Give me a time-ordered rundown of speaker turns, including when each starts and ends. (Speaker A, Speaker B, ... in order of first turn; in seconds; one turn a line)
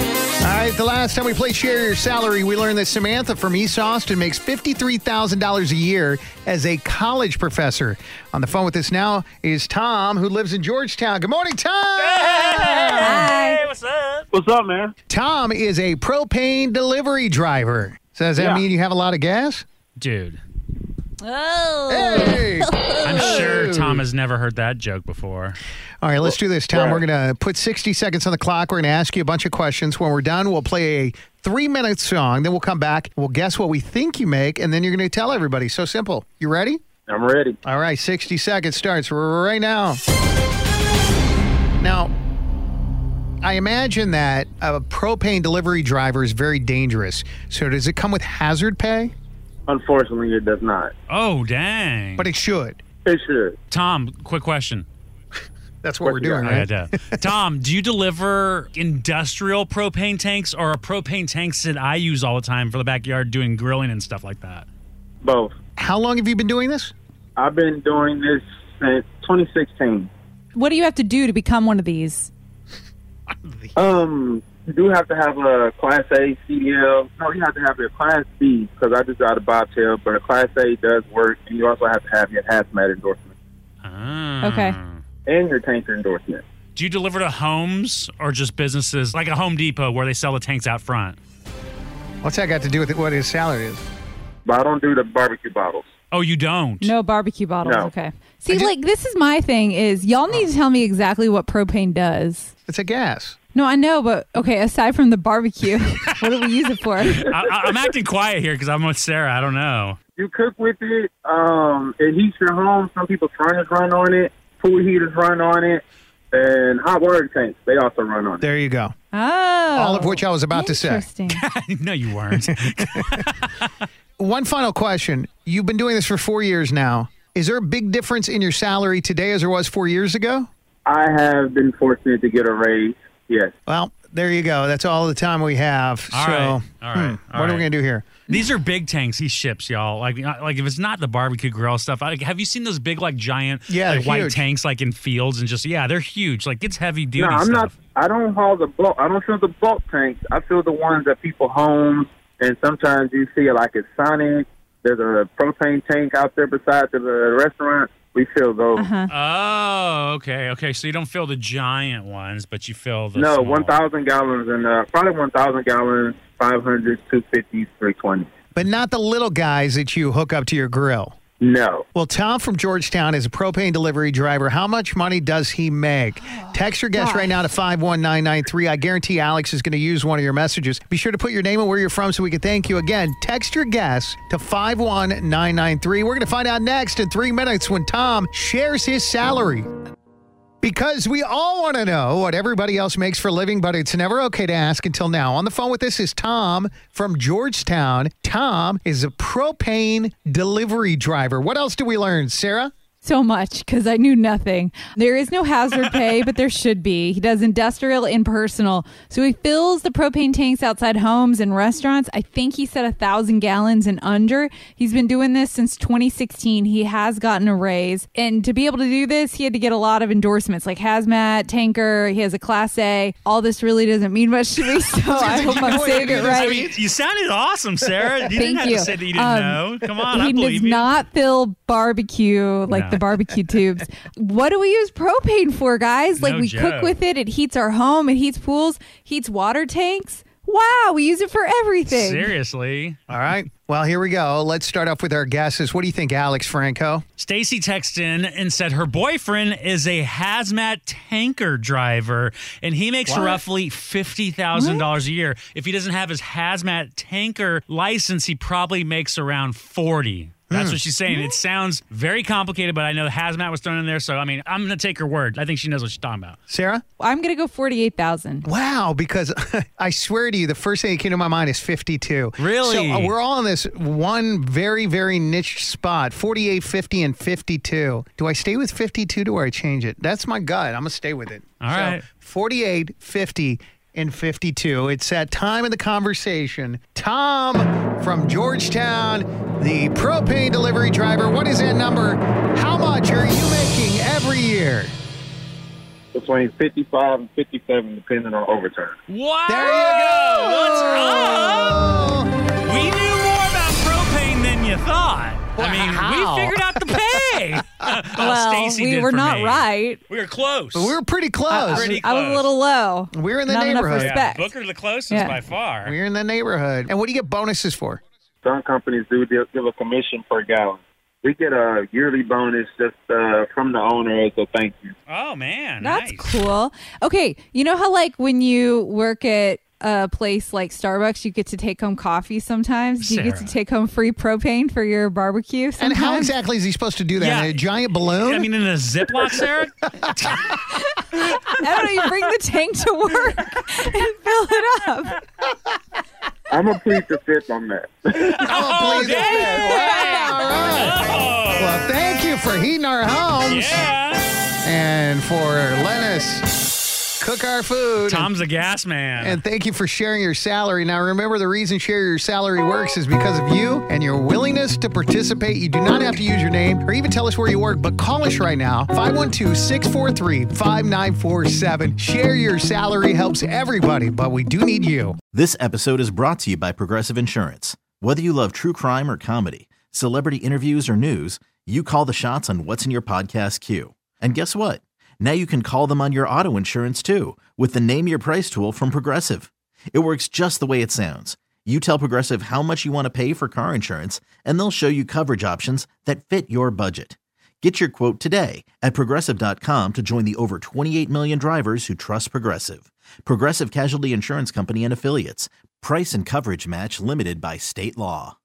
Speaker A: 0.4-13.2
Speaker B: 12.0-14.2
Speaker C: 13.0-13.6
Speaker D: 14.3-14.9
Speaker A: 15.1-19.6
Speaker D: 18.4-18.6
Speaker B: 20.0-20.4
Speaker C: 21.2-23.5
Speaker A: 21.9-24.0
Speaker B: 23.0-25.6
Speaker A: 26.0-36.8
Speaker D: 26.2-27.0
Speaker D: 37.1-37.6
Speaker A: 37.6-40.0
Speaker A: 41.8-42.1
Speaker A: 43.4-49.1
Speaker D: 49.7-50.9
Speaker B: 51.1-52.3
Speaker A: 52.2-52.8
Speaker D: 53.0-53.6
Speaker B: 53.7-54.9
Speaker A: 55.8-57.3
Speaker D: 56.0-56.5
Speaker B: 56.4-64.7
Speaker D: 65.2-65.5
Speaker A: 65.8-66.9
Speaker D: 67.4-70.1
Speaker C: 70.5-72.3
Speaker A: 73.4-73.7
Speaker D: 73.8-83.3
Speaker B: 83.8-85.0
Speaker C: 84.4-84.8
Speaker D: 85.3-86.4
Speaker B: 86.8-91.2
Speaker A: 92.2-93.8
Speaker D: 94.5-95.9
Speaker B: 96.1-96.9
Speaker C: 96.8-102.5
Speaker D: 97.6-97.9
Speaker A: 102.7-103.4
Speaker C: 103.5-107.3
Speaker B: 107.1-110.0
Speaker D: 110.2-118.4
Speaker A: 118.4-118.9
Speaker C: 119.1-121.4
Speaker A: 119.8-121.0
Speaker B: 121.3-123.7
Speaker A: 122.9-123.2
Speaker A: 124.2-130.5
Speaker D: 130.9-133.5
Speaker A: 133.7-138.3
Speaker B: 136.1-137.7
Speaker B: 138.3-147.8
Speaker A: 143.7-144.5
Speaker D: 147.2-158.9
Speaker C: 158.8-159.1
Speaker B: 159.1-163.8
Speaker D: 163.2-168.3
Speaker A: 168.6-171.2
Speaker D: 171.4-171.8
Speaker A: 171.9-189.7
Speaker C: 176.3-177.4
Speaker A: 190.6-202.7
Speaker C: 203.0-226.7
Speaker A: 225.1-226.7
Speaker B: 225.2-230.9
Speaker C: 228.3-242.3
Speaker B: 232.7-233.0
Speaker B: 236.2-236.9
Speaker B: 241.9-243.0
Speaker A: 243.1-247.0
Speaker B: 247.2-266.4
Speaker A: 253.1-253.4
Speaker C: 254.6-254.9
Speaker A: 260.5-260.8
Speaker A: 266.5-266.8
Speaker C: 267.0-268.5
Speaker A: 268.4-294.9
Speaker B: 272.4-273.1
Speaker B: 281.6-282.0
Speaker D: 296.1-299.0
Speaker B: 299.1-301.9
Speaker A: 299.5-302.3
Speaker B: 302.6-311.0
Speaker A: 305.6-307.6
Speaker C: 308.2-310.0
Speaker A: 310.7-312.0
Speaker C: 311.5-314.5
Speaker B: 311.6-312.5
Speaker A: 313.1-314.2
Speaker B: 314.0-315.9
Speaker C: 315.1-315.4
Speaker A: 315.8-318.0
Speaker D: 318.4-324.9
Speaker B: 325.1-326.4
Speaker C: 325.8-336.3
Speaker B: 333.0-333.5
Speaker A: 335.8-338.5
Speaker B: 337.2-340.6
Speaker C: 341.6-345.2
Speaker D: 346.5-348.1
Speaker B: 348.2-351.8
Speaker A: 348.4-353.8
Speaker C: 349.7-350.2
Speaker B: 353.5-354.3
Speaker A: 354.6-356.5
Speaker A: 357.2-358.3
Speaker B: 358.0-359.4
Speaker A: 359.2-375.2
Speaker E: 375.3-408.4